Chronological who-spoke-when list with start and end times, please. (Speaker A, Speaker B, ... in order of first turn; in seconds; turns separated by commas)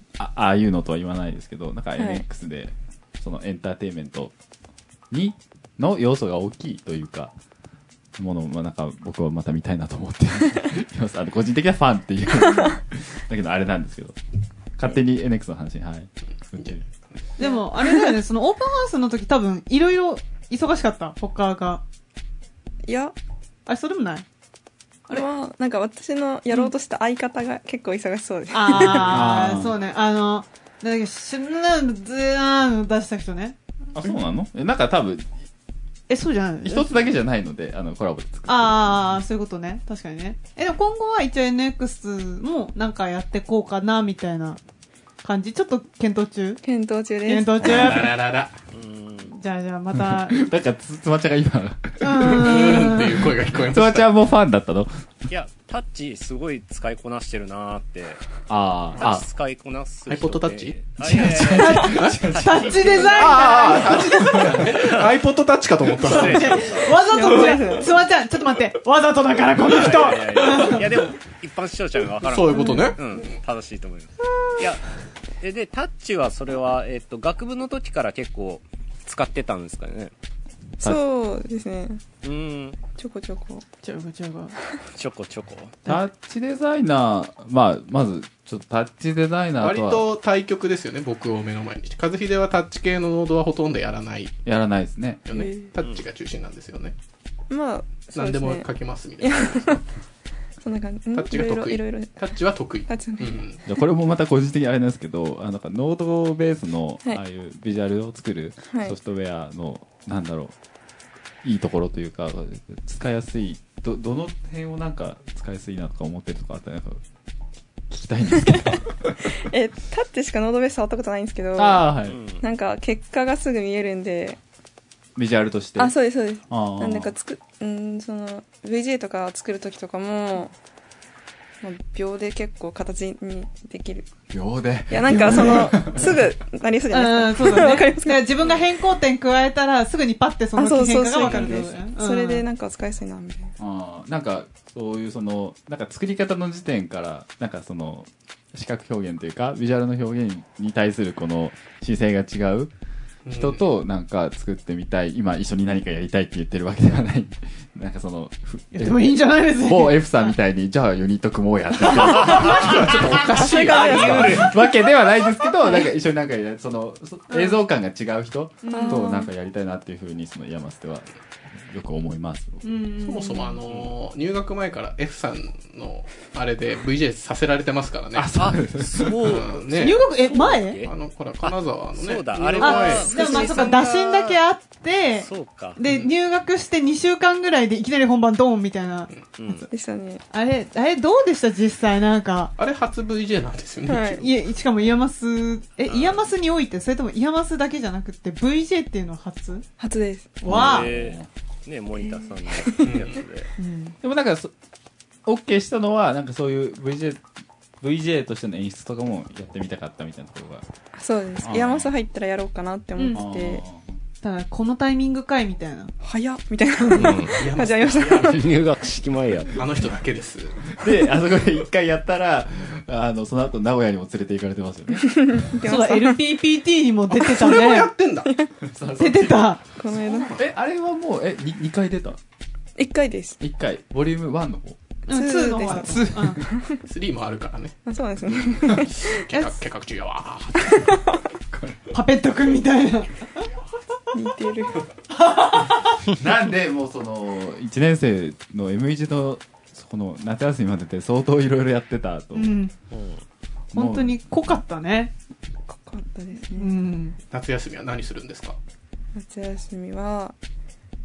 Speaker A: 0.2-4.3, Speaker B: 2.0-2.2, Speaker A: 5.1-7.3, Speaker A: 8.2-14.2, Speaker A: 14.8-16.8, Speaker C: 17.4-21.8, Speaker B: 17.4-18.1, Speaker B: 22.9-23.1, Speaker C: 23.7-24.2, Speaker B: 25.1-29.2, Speaker C: 28.5-34.1, Speaker A: 29.0-29.8, Speaker A: 33.9-35.3, Speaker C: 36.1-37.0, Speaker A: 36.6-39.0, Speaker C: 38.5-44.6, Speaker C: 45.2-46.6, Speaker B: 46.6-48.0, Speaker C: 47.2-48.1, Speaker D: 47.6-48.6, Speaker E: 48.7-49.4, Speaker C: 49.3-50.4, Speaker A: 49.9-55.1, Speaker C: 52.0-53.1, Speaker D: 52.2-54.1, Speaker E: 55.3-58.2, Speaker A: 58.5-59.2, Speaker E: 59.0-63.7, Speaker D: 60.1-61.2, Speaker A: 61.0-64.8, Speaker C: 61.5-64.6, Speaker D: 61.9-62.2, Speaker D: 63.2-66.7, Speaker E: 64.6-65.1, Speaker E: 66.0-67.0, Speaker C: 66.0-70.9, Speaker B: 67.0-68.0, Speaker E: 69.6-74.8, Speaker D: 72.2-73.3, Speaker E: 75.4-80.1, Speaker B: 80.8-82.0, Speaker E: 82.2-82.8, Speaker B: 83.0-83.6, Speaker C: 83.8-84.5, Speaker E: 85.0-85.8, Speaker A: 85.9-90.0, Speaker D: 89.6-94.4, Speaker A: 94.5-95.2, Speaker D: 95.3-96.9, Speaker B: 95.3-95.7, Speaker B: 97.5-98.7, Speaker D: 98.1-99.8, Speaker B: 99.2-99.8, Speaker B: 100.6-102.2, Speaker D: 101.1-103.6, Speaker B: 102.9-103.5, Speaker A: 103.7-110.5, Speaker A: 111.4-117.0, Speaker A: 117.9-119.3, Speaker B: 118.4-124.4, Speaker A: 121.6-122.2, Speaker E: 122.1-122.4, Speaker A: 125.2-125.9, Speaker B: 125.8-130.5, Speaker A: 126.5-127.1, Speaker B: 131.6-134.1, Speaker A: 134.3-136.3, Speaker B: 134.9-138.4, Speaker C: 136.9-142.4, Speaker B: 140.6-143.5, Speaker D: 141.2-141.7, Speaker A: 143.6-152.7, Speaker D: 153.2-153.6, Speaker A: 153.3-172.6, Speaker C: 158.7-160.3, Speaker C: 162.1-162.9, Speaker D: 162.4-164.5, Speaker E: 163.2-164.5, Speaker B: 163.3-164.5, Speaker C: 167.3-167.6, Speaker C: 168.6-169.1, Speaker B: 168.7-169.3, Speaker C: 172.6-173.6, Speaker D: 173.0-178.3, Speaker A: 178.1-179.4, Speaker E: 178.3-184.4, Speaker D: 179.2-180.0, Speaker C: 179.8-180.8, Speaker D: 180.8-183.7, Speaker C: 182.6-189.7, Speaker E: 185.2-185.8, Speaker E: 189.4-189.7, Speaker B: 189.7-190.2, Speaker C: 190.3-192.5, Speaker D: 192.6-194.3, Speaker B: 193.9-194.2, Speaker C: 194.2-199.6, Speaker E: 195.9-196.2, Speaker B: 199.8-200.4, Speaker C: 200.4-200.9, Speaker A: 200.5-201.3, Speaker E: 200.5-203.5, Speaker B: 202.0-203.0, Speaker D: 202.8-203.2, Speaker C: 203.6-204.0, Speaker A: 204.0-204.5, Speaker A: 205.3-207.2, Speaker A: 207.8-210.6, Speaker B: 210.9-213.6, Speaker A: 211.4-211.9, Speaker C: 213.0-213.2, Speaker A: 213.1-213.9, Speaker C: 214.2-215.9, Speaker B: 216.0-218.5, Speaker E: 216.9-217.4, Speaker D: 217.2-218.5, Speaker E: 218.1-219.6, Speaker D: 219.5-220.8, Speaker A: 220.7-225.4, Speaker B: 225.0-226.2, Speaker C: 225.6-227.9, Speaker D: 227.1-228.3, Speaker B: 228.2-228.5, Speaker A: 228.6-229.5, Speaker C: 229.0-229.6, Speaker B: 229.8-230.3, Speaker D: 229.8-230.4, Speaker A: 230.3-232.2, Speaker B: 232.8-233.4, Speaker A: 233.4-234.8, Speaker C: 235.1-236.4, Speaker B: 235.1-236.8, Speaker A: 235.6-236.5, Speaker D: 236.8-240.9, Speaker B: 237.9-239.2, Speaker B: 240.6-241.2, Speaker A: 241.5-241.8, Speaker C: 241.9-243.3, Speaker B: 244.1-244.8, Speaker C: 245.2-246.0, Speaker A: 246.1-252.6, Speaker C: 252.3-252.7, Speaker E: 252.9-253.2, Speaker A: 253.7-254.2, Speaker C: 253.8-255.1, Speaker B: 255.7-256.7, Speaker C: 256.6-257.2, Speaker D: 257.3-258.6, Speaker B: 259.1-260.4